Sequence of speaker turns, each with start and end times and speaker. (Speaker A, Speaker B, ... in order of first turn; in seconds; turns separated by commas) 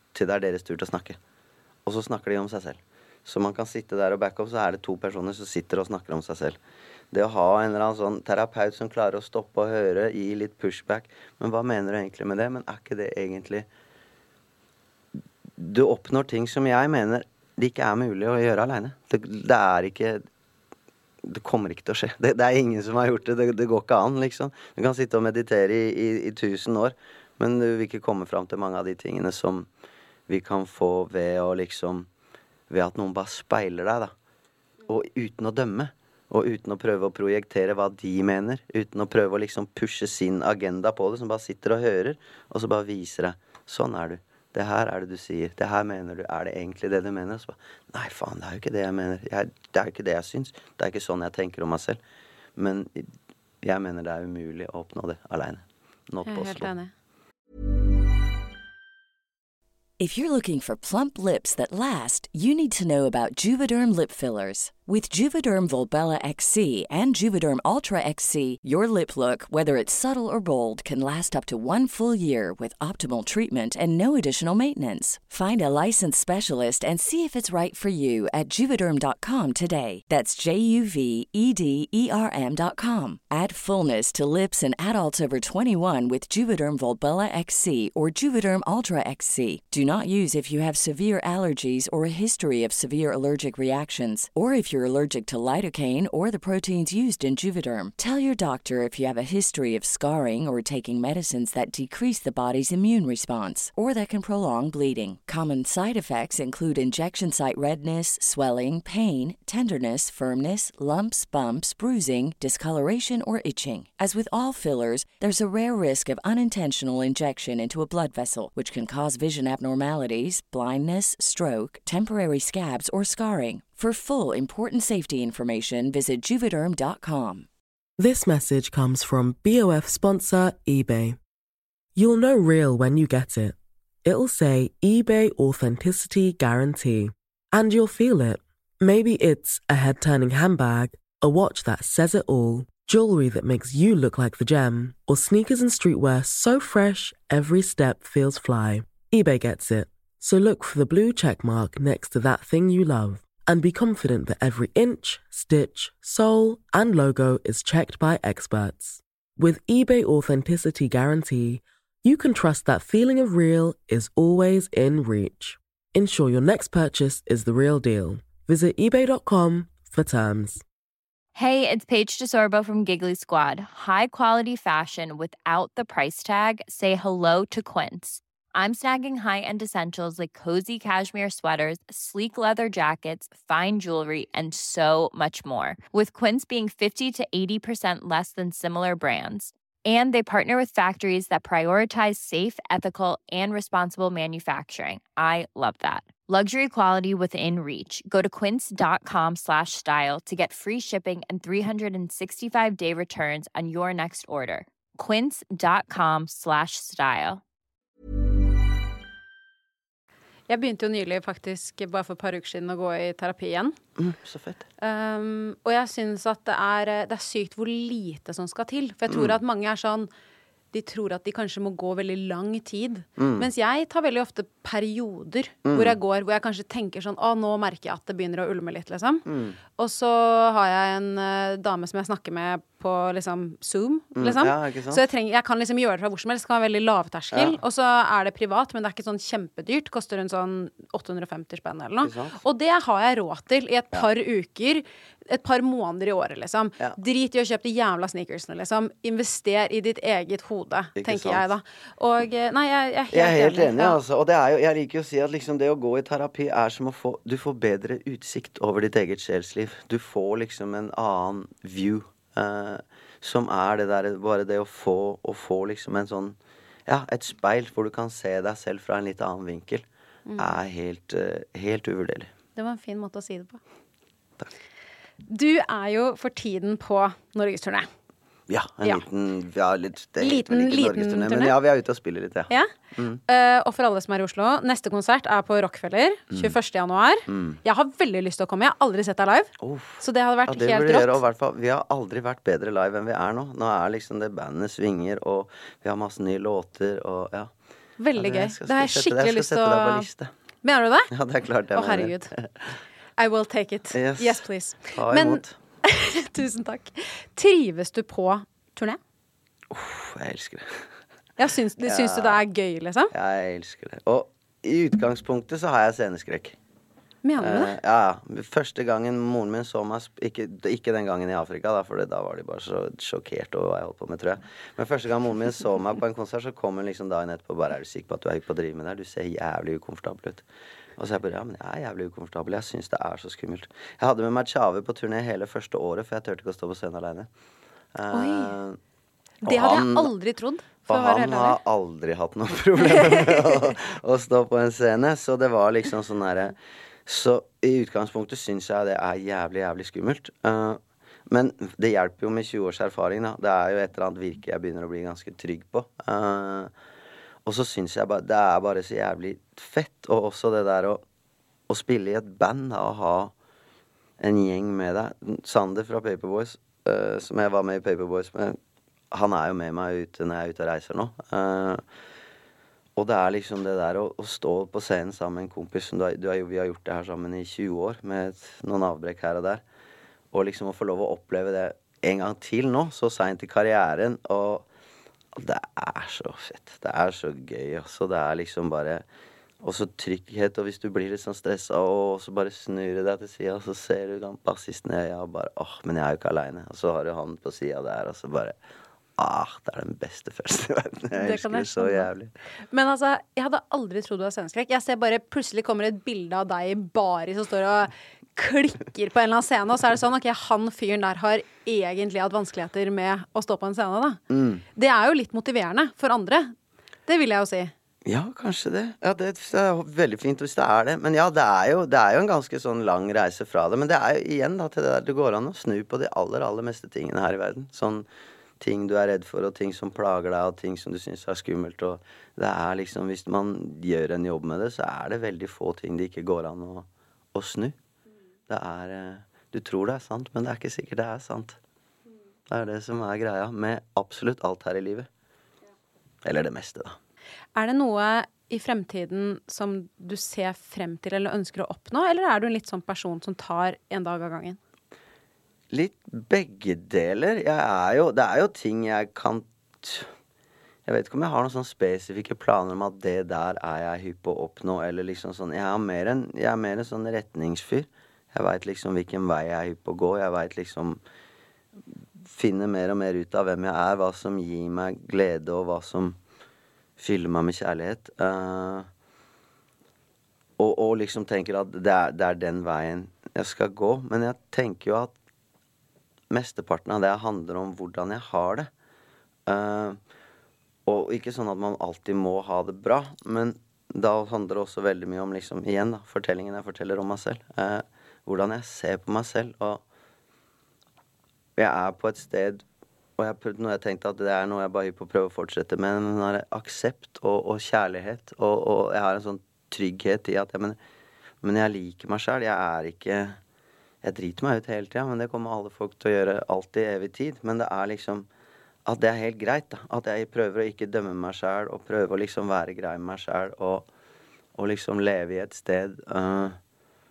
Speaker A: 0.1-1.2, Speaker A: 1.9-6.6, Speaker A: 7.1-13.7, Speaker A: 15.6-20.2, Speaker A: 21.2-29.7, Speaker A: 30.3-32.1, Speaker A: 32.7-34.1, Speaker A: 34.9-52.0, Speaker A: 52.5-56.7, Speaker B: 56.2-56.9, Speaker C: 60.0-127.5, Speaker D: 128.0-131.2, Speaker D: 131.9-170.6, Speaker E: 171.3-207.4, Speaker B: 210.5-213.8, Speaker A: 214.0-214.6, Speaker B: 214.8-220.1, Speaker A: 219.1-219.3, Speaker B: 220.7-229.2, Speaker A: 223.2-223.5, Speaker A: 225.6-226.0, Speaker A: 229.2-229.6, Speaker B: 229.8-254.0, Speaker A: 234.1-235.0, Speaker A: 237.3-237.6, Speaker A: 242.0-242.4, Speaker A: 250.9-251.5, Speaker A: 253.1-269.8, Speaker B: 270.2-270.6, Speaker A: 270.4-272.3, Speaker B: 272.6-273.6, Speaker B: 275.3-277.9, Speaker A: 278.5-283.2, Speaker B: 280.2-281.5, Speaker B: 283.3-291.2, Speaker A: 286.3-286.6, Speaker A: 287.3-287.6, Speaker A: 289.6-297.5, Speaker B: 298.0-300.1, Speaker A: 298.1-300.3, Speaker B: 300.6-301.1, Speaker A: 301.1-302.5, Speaker B: 301.7-302.3, Speaker B: 303.2-309.0, Speaker A: 303.9-305.6, Speaker A: 309.7-310.9, Speaker B: 311.4-313.1, Speaker A: 311.8-312.4, Speaker A: 313.1-316.6, Speaker B: 317.2-317.7, Speaker A: 317.4-330.4, Speaker A: 331.0-337.3, Speaker A: 337.9-338.8, Speaker B: 338.1-338.5, Speaker B: 339.4-341.6, Speaker A: 339.4-340.1, Speaker A: 340.9-356.7, Speaker A: 357.4-361.0, Speaker A: 361.7-363.3, Speaker A: 364.2-368.6, Speaker A: 369.1-371.8, Speaker A: 372.9-379.6, Speaker A: 380.3-384.7, Speaker A: 385.3-389.1, Speaker A: 389.6-398.6, Speaker A: 399.2-402.3, Speaker B: 401.1-402.1, Speaker B: 402.7-414.2, Speaker A: 414.3-414.6, Speaker B: 414.8-416.5, Speaker B: 417.1-417.7, Speaker A: 418.0-428.1, Speaker A: 428.6-437.8, Speaker A: 438.5-441.6, Speaker A: 442.5-445.1, Speaker A: 446.2-447.0, Speaker B: 447.5-454.6, Speaker A: 455.7-460.1, Speaker A: 460.9-471.0, Speaker A: 472.2-476.2, Speaker A: 477.0-478.9, Speaker A: 480.6-485.1, Speaker A: 486.3-488.7, Speaker A: 489.5-490.0, Speaker A: 490.9-499.8, Speaker A: 501.6-502.6, Speaker A: 503.2-510.8, Speaker A: 511.4-513.4, Speaker A: 514.0-518.3, Speaker A: 518.9-523.9, Speaker A: 524.5-526.6